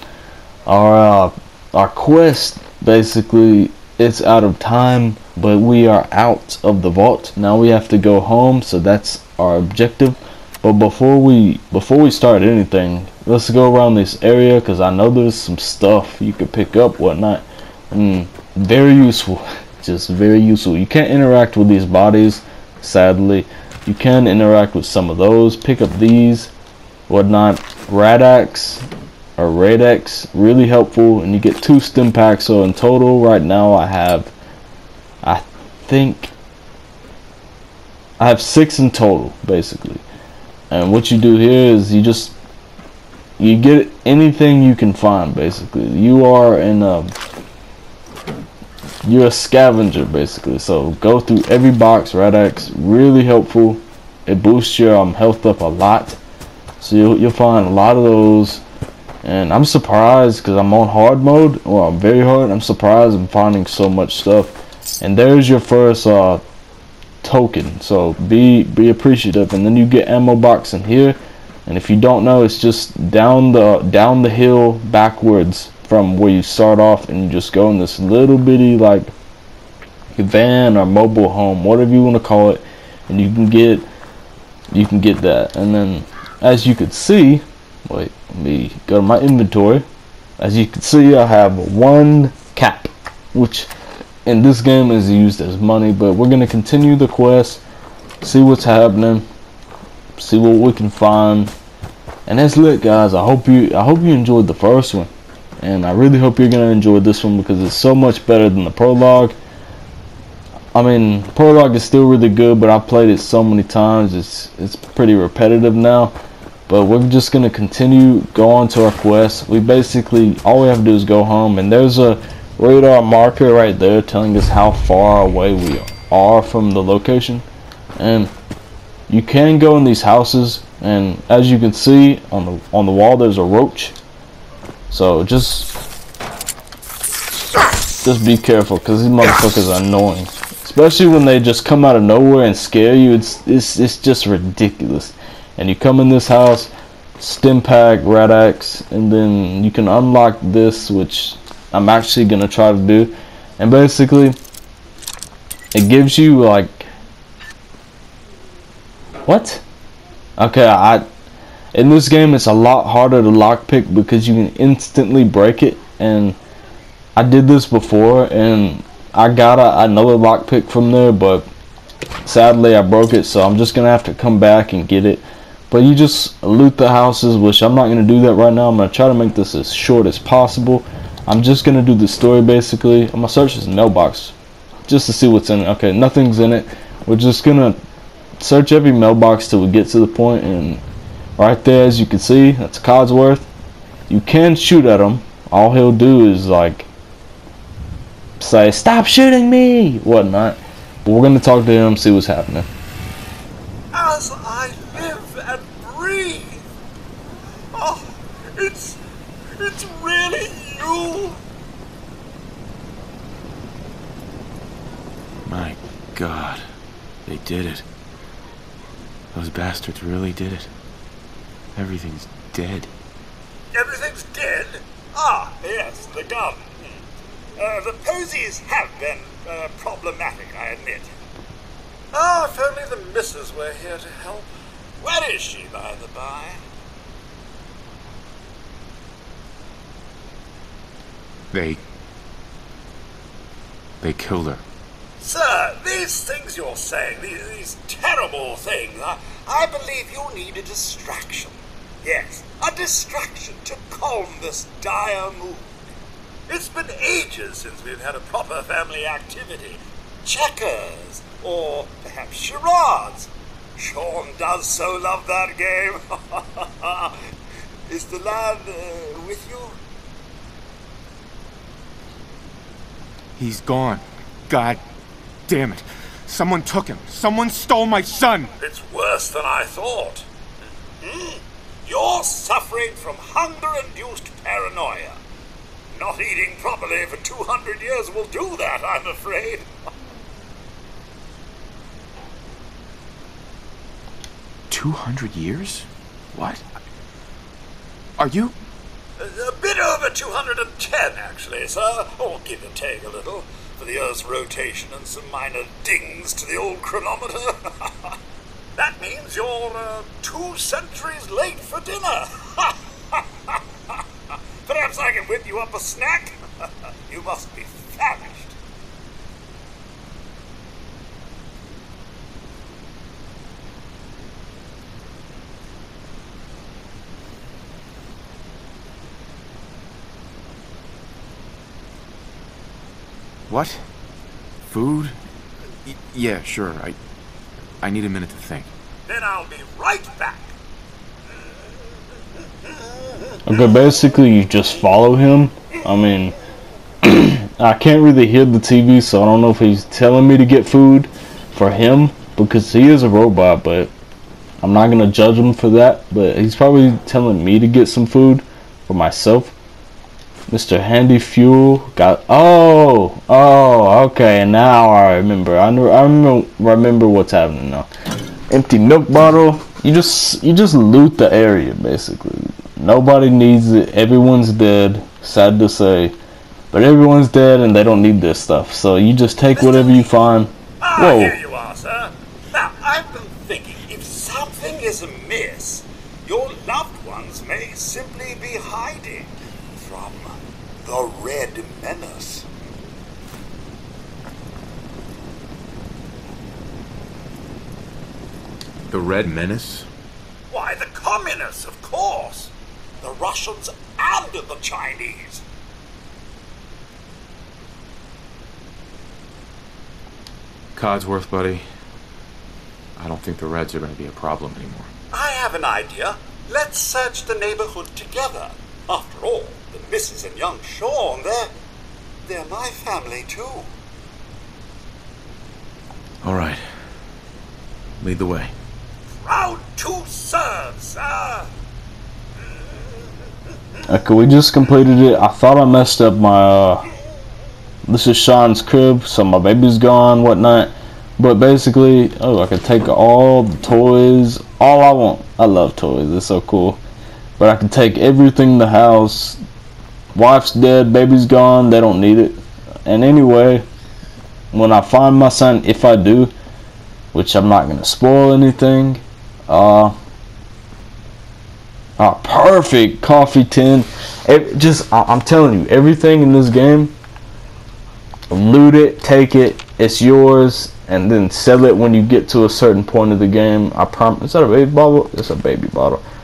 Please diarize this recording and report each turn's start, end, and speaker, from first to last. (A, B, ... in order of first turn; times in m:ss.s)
0:00.7-0:26.5 A
0:27.1-0:28.8 A
0:29.4-0:34.3 A
0:35.2-0:36.3 A
0:38.2-0:40.0 A
0:40.7-0:42.4 A
0:43.4-0:47.1 A
0:49.0-0:56.2 A
0:56.8-0:58.6 A
0:59.2-1:06.4 A
1:07.2-1:19.1 A
1:20.2-1:23.9 A
1:24.7-1:29.9 A
1:30.4-1:33.7 A
1:34.2-1:37.6 A
1:38.2-1:39.3 A
1:40.2-1:41.5 A
1:42.3-1:49.4 A
1:50.7-1:56.2 A
1:56.7-2:07.4 A
2:08.0-2:08.3 A
2:09.1-2:14.0 A
2:14.9-2:15.7 A
2:18.0-2:34.4 A
2:35.7-2:36.9 A
2:39.3-2:39.6 A
2:40.4-2:41.1 A
2:41.7-2:46.4 A
2:47.2-2:51.5 A
2:52.2-3:04.3 A
3:04.9-3:07.8 A
3:08.4-3:10.8 A
3:11.4-3:13.5 A
3:14.1-3:16.9 A
3:18.4-3:22.7 A
3:23.9-3:26.6 B
3:27.7-3:29.0 B
3:29.6-3:31.4 B
3:35.4-3:36.6 C
3:37.3-3:37.8 C
3:39.3-3:40.7 C
3:41.8-3:42.9 C
3:43.7-3:47.0 B
3:47.6-3:51.2 B
3:52.1-3:54.5 B
3:55.0-3:56.6 B
4:01.5-4:01.8 C
4:04.0-4:04.6 C
4:05.2-4:15.7 B
4:16.5-4:27.2 B
4:27.9-4:29.8 B
4:33.4-4:34.8 C
4:35.5-4:38.5 C
4:38.6-4:40.3 B
4:41.0-4:45.2 B
4:45.9-4:49.7 B
4:54.7-4:56.6 C
4:58.2-4:58.6 C
4:59.2-5:07.9 B
5:08.8-5:14.0 B
5:14.6-5:16.4 B
5:17.1-5:18.6 B
5:33.5-5:33.8 C
5:34.7-5:35.2 C
5:35.9-5:37.0 C
5:37.8-5:38.7 C
5:39.1-5:40.5 B
5:43.5-5:46.4 A
5:47.0-5:53.9 A
5:54.6-5:59.5 A
6:00.5-6:07.9 A
6:08.5-6:16.2 A
6:16.7-6:21.4 A
6:19.6-6:20.1 B
6:20.8-6:32.5 B
6:38.9-6:39.9 C
6:40.5-6:45.4 B
6:50.8-6:51.6 C
6:53.0-6:54.9 C
6:55.1-7:01.5 B
7:02.3-7:03.7 B
7:06.2-7:06.6 C
7:08.0-7:08.5 C
7:09.2-7:11.5 B
7:13.9-7:16.9 A
7:17.9-7:26.8 A
7:27.4-7:29.4 A
7:30.2-7:33.7 A
7:34.5-7:36.3 A
7:37.1-7:40.0 A
7:42.0-7:46.9 A
7:48.3-7:56.0 A